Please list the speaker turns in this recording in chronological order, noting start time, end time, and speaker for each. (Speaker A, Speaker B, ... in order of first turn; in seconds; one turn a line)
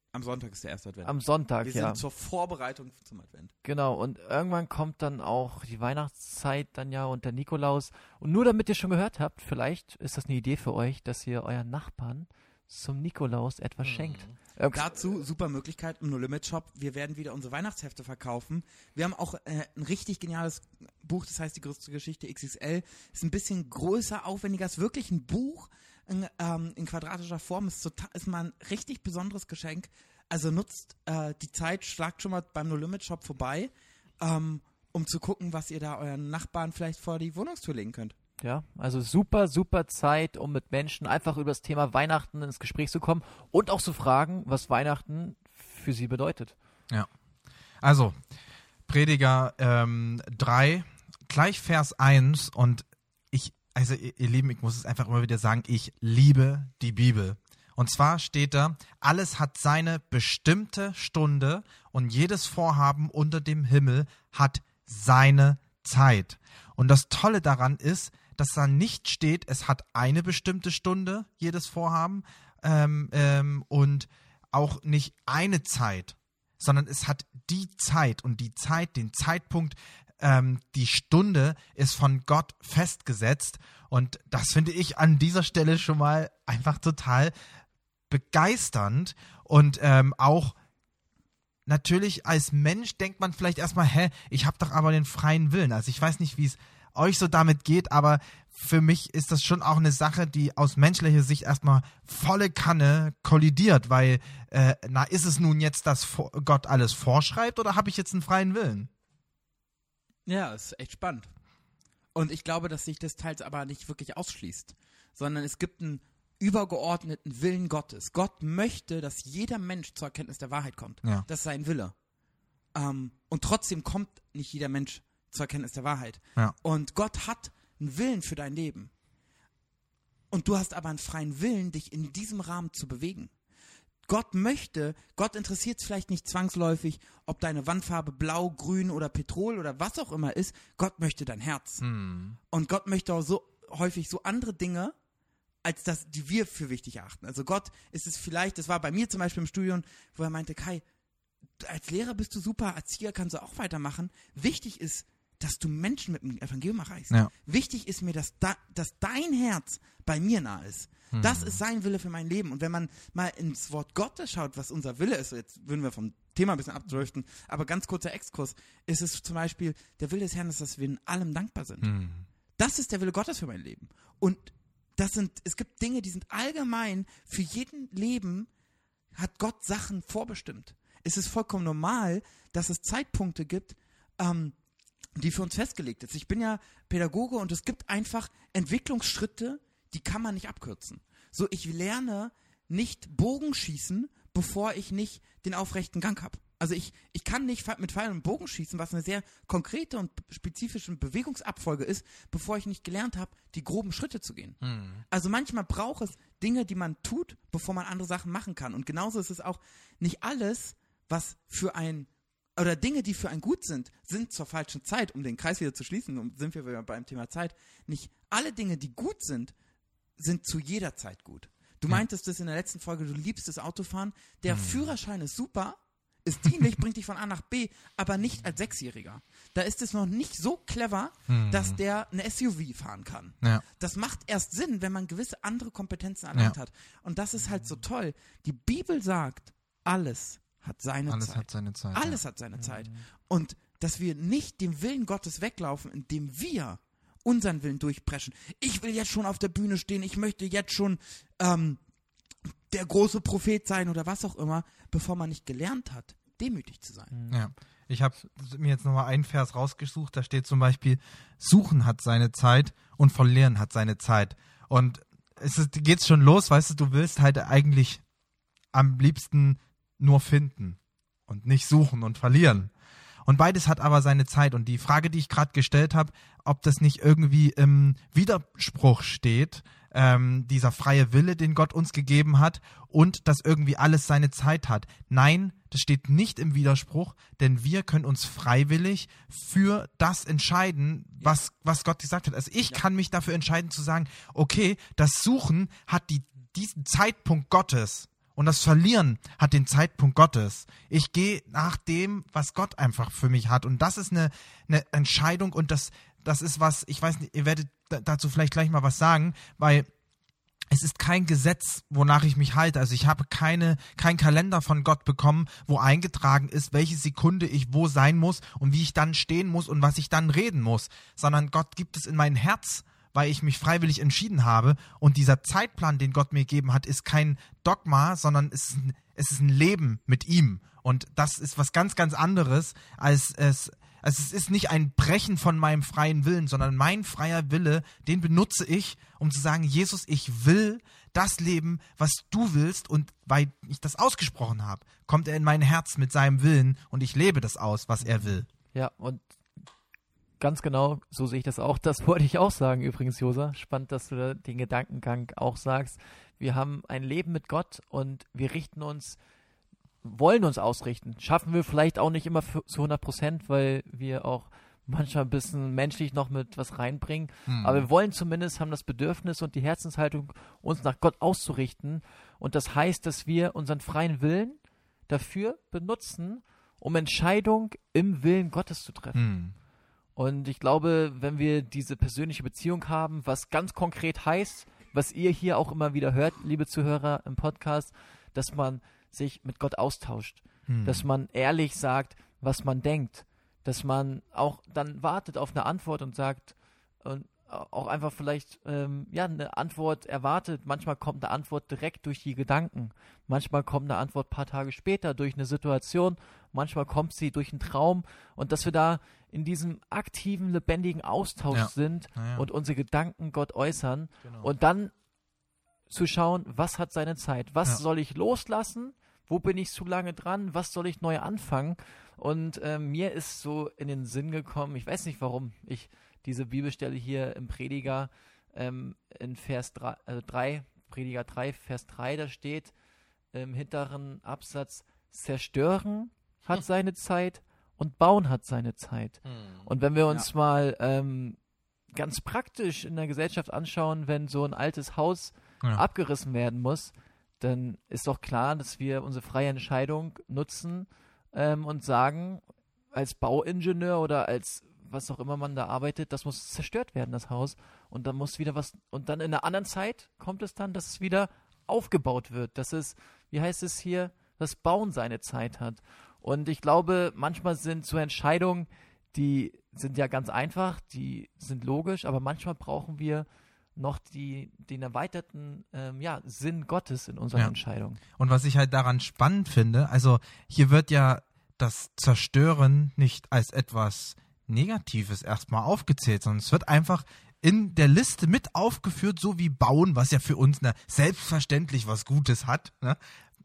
Speaker A: 0.1-3.5
Speaker B: 1.0-2.0
Speaker B: 3.6-15.0
Speaker A: 14.7-38.1
Speaker B: 38.4-46.5
Speaker C: 47.8-48.1
Speaker C: 48.9-87.3
Speaker C: 88.1-90.5
Speaker C: 91.7-108.9
Speaker A: 110.3-111.3
Speaker A: 112.1-121.9
Speaker A: 122.7-128.9
Speaker A: 130.3-133.3
Speaker A: 134.1-141.8
Speaker C: 141.8-142.4
Speaker A: 142.5-144.9
Speaker A: 145.6-150.8
Speaker A: 151.6-171.9
Speaker C: 161.1-161.6
Speaker C: 171.8-172.2
Speaker A: 172.6-178.5
Speaker A: 179.2-184.6
Speaker A: 185.2-204.6
Speaker C: 204.6-205.0
Speaker A: 205.1-219.5
Speaker A: 220.2-251.8
Speaker C: 224.5-224.9
Speaker C: 231.3-231.8
Speaker C: 241.1-242.2
Speaker B: 242.6-243.1
Speaker A: 252.7-257.1
Speaker B: 257.1-257.5
Speaker C: 257.3-268.0
Speaker C: 268.7-272.7
Speaker C: 273.2-309.9
Speaker C: 310.7-348.5
Speaker B: 348.0-349.2
Speaker B: 350.4-359.2
Speaker B: 360.0-379.3
Speaker C: 367.5-367.9
Speaker C: 379.1-379.5
Speaker B: 380.1-414.9
Speaker C: 390.7-391.1
Speaker C: 411.5-412.4
Speaker C: 414.2-414.5
Speaker B: 415.9-432.7
Speaker B: 433.3-441.4
Speaker B: 441.9-478.0
Speaker C: 478.2-493.0